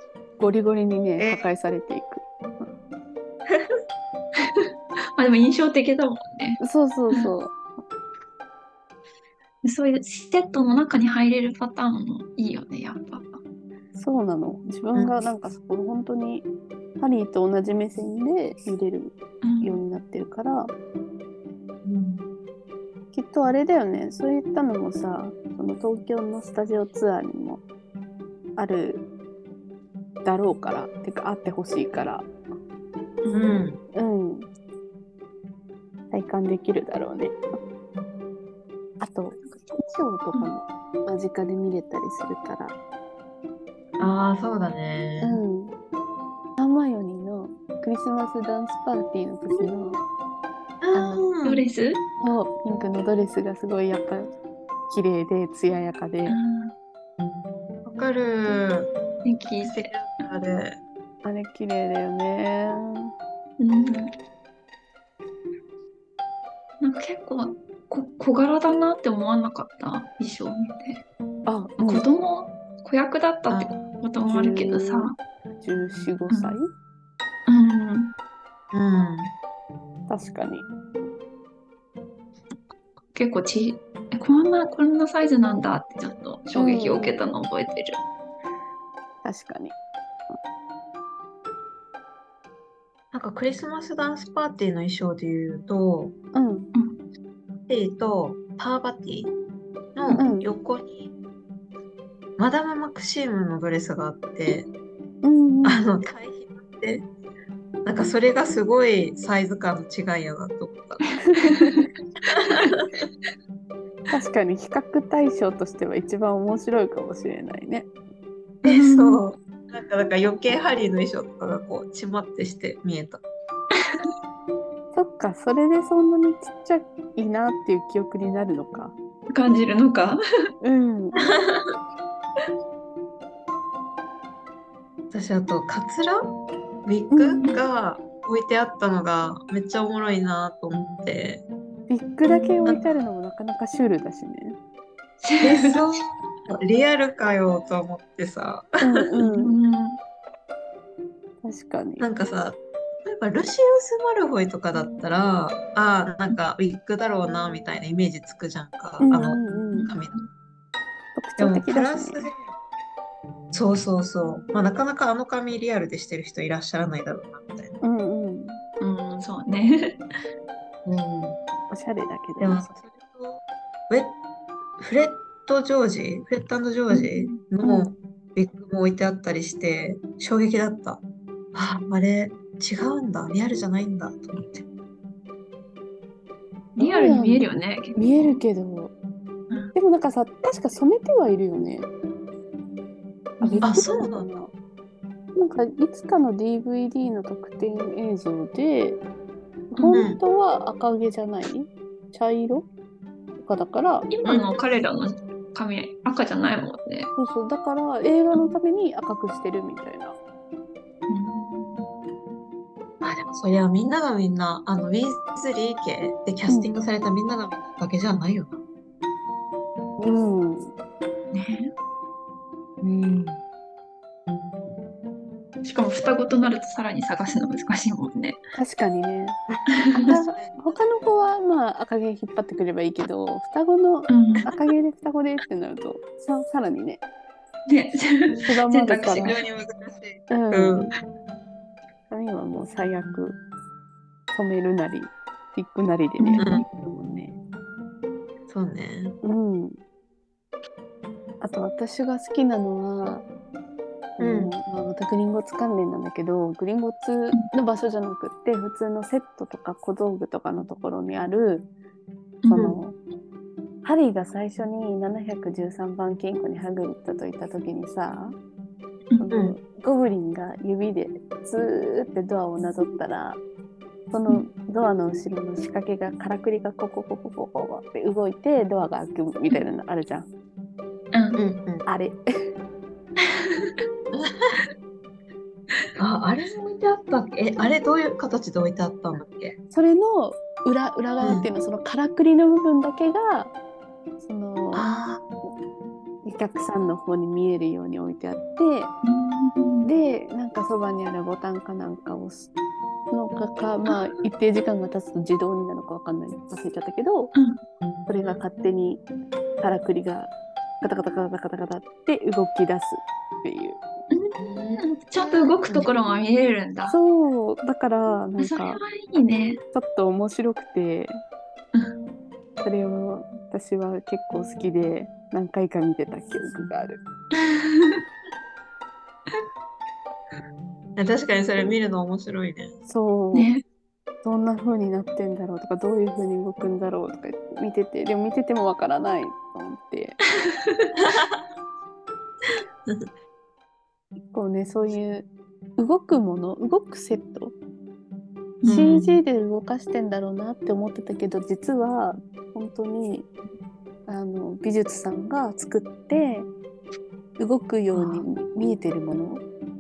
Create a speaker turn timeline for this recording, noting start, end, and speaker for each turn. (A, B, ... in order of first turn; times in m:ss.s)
0:00.4-0:02.7 A
0:01.2-0:01.5 B
0:04.6-0:06.6 C
0:06.6-0:07.6 A
0:09.6-0:13.4 C
0:14.0-0:16.5 A
0:17.0-0:20.7 A
0:19.4-0:19.8 C
0:21.8-0:22.3 B
0:23.1-0:27.6 A
0:28.6-0:29.0 A
0:30.2-0:32.3 A
0:33.2-0:33.6 C
0:33.3-0:33.8 B
0:33.9-0:34.5 A
0:36.1-0:37.4 A
0:39.0-0:42.8 A
0:44.0-0:45.4 B
0:45.2-0:45.8 A
0:46.6-0:50.0 A
0:50.8-0:51.7 B
0:50.9-0:51.2 A
0:51.4-0:52.0 C
0:52.2-0:54.3 A
0:54.9-0:56.4 A
0:56.3-0:56.8 C
0:57.8-0:58.9 B
0:59.2-0:59.9 C
0:59.6-1:00.8 B
1:01.2-1:03.1 A
1:03.6-1:04.1 C
1:06.8-1:11.0 C
1:11.5-1:12.0 A
1:11.8-1:15.2 C
1:13.5-1:13.8 B
1:14.3-1:16.7 A
1:16.3-1:16.6 C
1:17.5-1:18.1 C
1:18.7-1:19.3 B
1:20.1-1:20.7 A
1:23.1-1:28.0 C
1:26.6-1:27.2 A
1:29.2-1:29.8 A
1:33.1-1:36.2 B
1:36.3-1:36.7 A
1:36.8-1:37.0 C
1:37.7-1:39.3 B
1:40.0-1:41.1 B
1:40.2-1:40.5 A
1:42.4-1:44.7 B
1:45.2-1:45.9 A
1:45.6-1:47.1 B
1:47.8-1:51.1 B
1:51.3-1:51.8 A
1:51.4-1:51.8 C
1:52.3-1:52.9 B
1:54.1-1:57.9 A
1:58.6-1:59.2 C
1:58.6-2:03.2 B
2:04.9-2:09.0 A
2:09.3-2:10.2 C
2:10.6-2:11.3 A
2:11.2-2:11.8 B
2:15.1-2:16.3 B
2:16.8-2:21.4 B
2:17.1-2:17.4 A
2:21.9-2:24.6 A
2:22.3-2:22.8 C
2:25.2-2:25.8 C
2:25.4-2:29.1 B
2:28.8-2:29.6 A
2:29.3-2:30.0 C
2:31.4-2:32.1 A
2:32.0-2:40.2 B
2:39.0-2:39.9 A
2:39.8-2:40.2 C
2:41.2-2:42.3 A
2:41.4-2:42.5 B
2:43.5-2:47.8 B
2:47.8-2:48.6 A
2:48.8-2:50.0 C
2:50.9-2:51.4 B
2:51.7-2:52.7 A
2:52.4-2:54.2 B
2:54.8-3:01.0 B
2:56.9-2:57.4 C
2:57.6-2:57.9 A
3:01.5-3:04.7 B
3:06.8-3:07.4 A
3:06.8-3:08.4 C
3:08.0-3:08.9 A
3:09.7-3:11.9 A
3:13.4-3:13.7 C
3:13.4-3:14.5 A
3:13.6-3:14.3 B
3:15.4-3:19.0 A
3:19.7-3:22.7 A
3:19.8-3:20.0 C
3:19.9-3:20.2 B
3:23.4-3:24.1 A
3:24.1-3:27.1 C
3:24.3-3:24.6 B
3:27.2-3:30.2 A
3:31.1-3:31.9 C
3:33.0-3:38.6 B
3:36.5-3:36.8 A
3:40.0-3:40.7 A
3:41.3-3:41.7 C
3:42.8-3:43.4 B
3:45.6-3:48.4 C
3:48.6-3:49.4 A
3:49.5-3:50.8 B
3:49.7-3:50.1 C
3:49.9-3:57.0 A
3:54.1-3:54.5 C
3:57.7-3:59.4 C
3:58.4-3:59.4 A
3:59.2-4:00.9 B
4:00.3-4:00.9 A
4:02.1-4:03.4 A
4:04.3-4:07.4 A
4:06.2-4:06.5 C
4:08.5-4:09.2 B
4:09.2-4:09.8 A
4:11.4-4:13.3 A
4:14.2-4:21.7 A
4:14.2-4:14.5 B
4:22.4-4:22.8 C
4:22.5-4:23.0 A
4:22.5-4:22.8 B
4:23.8-4:28.4 A
4:29.2-4:33.4 A
4:29.3-4:29.6 B
4:34.1-4:40.3 A
4:41.1-4:41.4 C
4:41.4-4:41.8 B
4:41.9-4:42.2 A
4:43.2-4:43.8 C
4:44.1-4:44.5 B
4:46.0-4:49.6 B
4:49.7-4:53.5 A
4:51.2-4:51.5 B
4:54.2-4:55.0 A
4:54.7-4:55.2 B
4:56.2-4:58.9 A
4:59.0-4:59.9 C
4:59.8-5:02.5 A
5:03.1-5:07.3 A
5:03.9-5:04.2 C
5:07.4-5:07.6 C
5:08.1-5:09.0 A
5:09.6-5:13.8 A
5:14.1-5:17.0 C
5:14.4-5:15.9 B
5:16.9-5:18.8 A
5:18.4-5:19.6 C
5:19.7-5:21.2 A
5:22.6-5:27.0 A
5:27.4-5:28.0 C
5:31.0-5:32.7 B
5:32.9-5:33.5 A
5:33.3-5:33.6 C
5:34.2-5:40.2 A
5:40.5-5:40.9 C
5:41.0-5:41.4 B
5:44.3-5:47.6 A
5:48.6-5:49.2 B
5:48.6-5:53.3 A
5:54.1-5:56.5 A
5:57.4-5:59.4 A
5:57.9-5:58.2 C